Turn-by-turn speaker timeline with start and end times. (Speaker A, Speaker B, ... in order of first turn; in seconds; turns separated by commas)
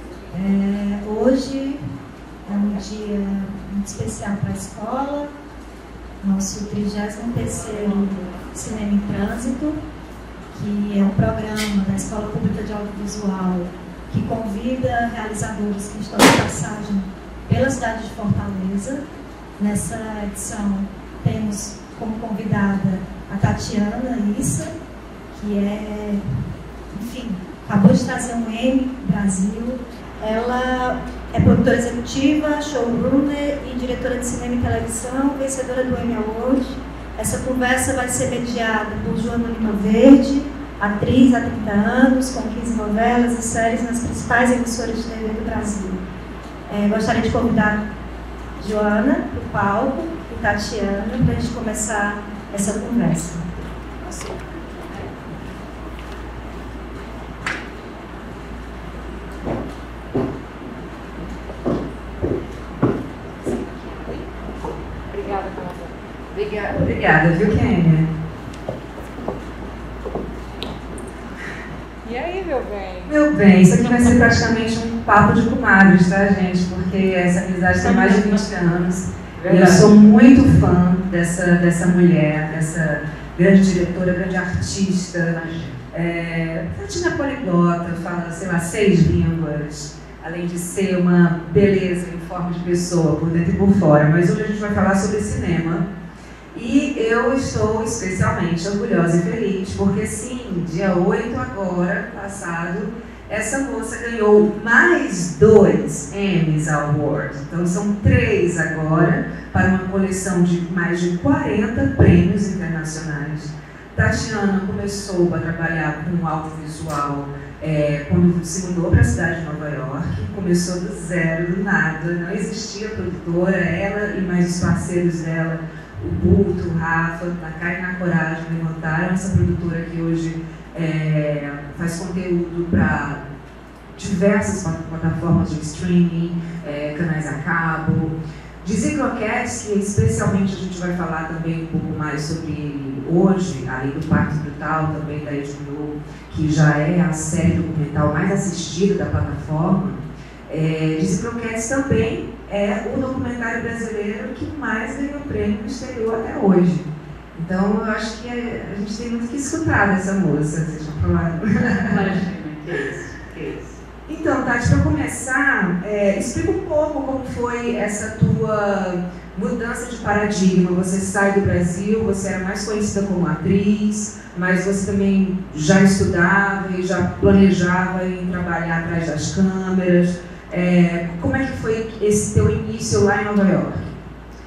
Speaker A: 0.3-1.8, Speaker A: 2.5-5.3, Speaker A: 6.2-9.8, Speaker A: 10.5-19.0, Speaker A: 19.6-24.7, Speaker A: 25.3-26.2, Speaker A: 26.9-46.0, Speaker A: 46.7-47.8, Speaker A: 48.6-53.5, Speaker B: 54.0-55.2, Speaker B: 63.4-64.3, Speaker B: 65.1-66.8, Speaker C: 66.7-68.1, Speaker B: 72.0-73.2, Speaker C: 73.1-95.9, Speaker B: 77.8-78.5, Speaker B: 79.4-79.9, Speaker C: 96.5-133.2, Speaker C: 133.9-162.2, Speaker B: 161.8-163.8, Speaker C: 164.1-184.0